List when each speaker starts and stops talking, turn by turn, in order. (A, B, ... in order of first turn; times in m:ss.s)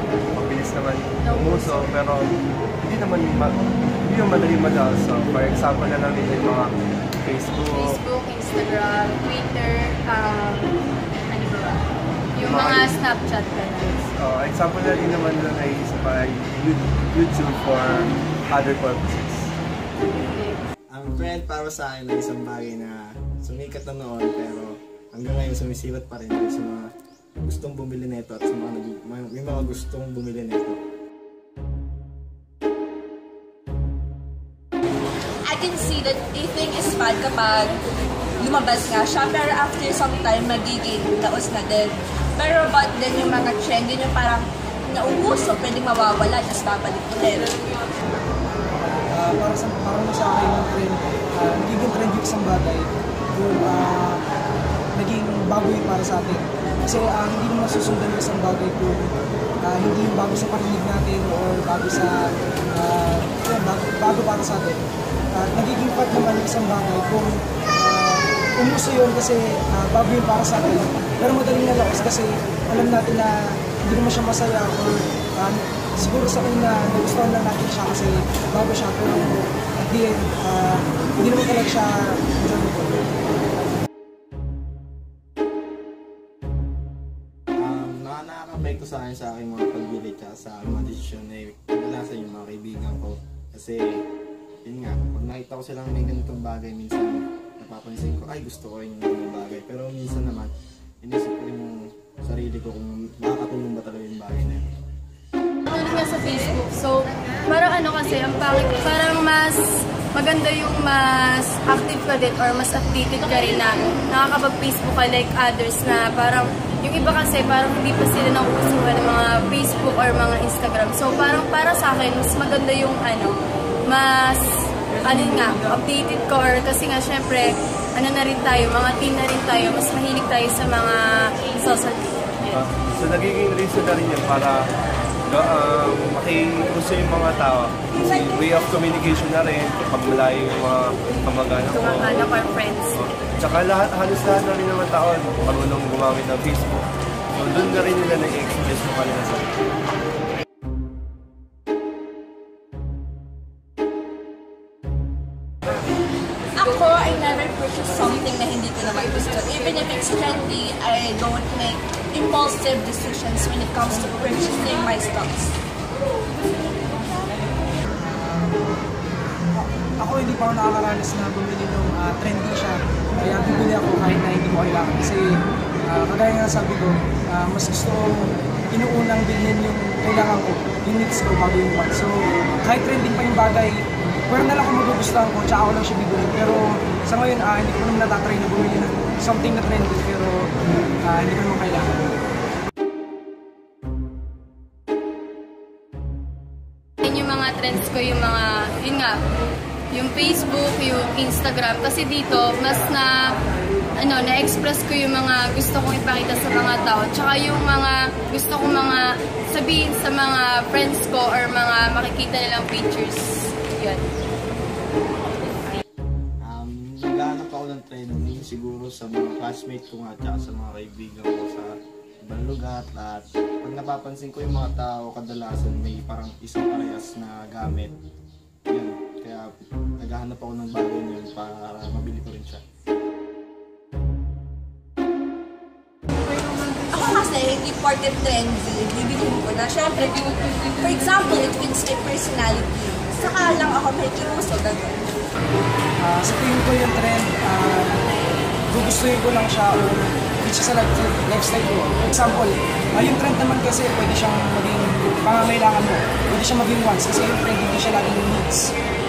0:00.3-0:02.2 A
0:01.2-0:01.9 B
0:02.8-0:06.7 A
0:07.2-0:08.0 A
0:07.7-0:10.7 B
0:11.3-0:11.8 B
0:12.3-0:14.0 B
0:12.4-0:12.9 A
0:14.2-0:19.5 A
0:20.0-0:20.6 B
0:20.9-0:26.9 C
0:27.4-0:30.8 C
0:35.4-0:37.8 D
0:38.4-0:47.5 D
0:49.1-0:54.2 E
0:54.9-0:59.1 E
0:59.6-1:04.8 E
1:05.3-1:23.1 E
1:27.6-1:34.0 C
1:34.6-1:40.5 C
1:41.0-1:44.6 C
1:45.7-2:03.3 B
2:03.9-2:12.5 B
2:12.5-2:14.5 A
2:15.3-2:22.3 A
2:21.7-2:23.0 B
2:22.9-2:26.8 A
2:27.3-2:29.5 A
2:36.6-2:45.5 D
2:48.0-2:48.7 E
2:49.5-2:55.3 E
2:55.8-3:10.5 E
3:11.0-3:12.1 E
3:17.0-3:19.2 B
3:19.9-3:23.3 B
3:24.0-3:34.0 B
3:36.4-3:41.7 C
3:42.2-3:47.9 C
3:48.7-3:52.6 C
3:56.9-4:05.0 D
4:06.0-4:08.0 E
4:08.7-4:18.7 E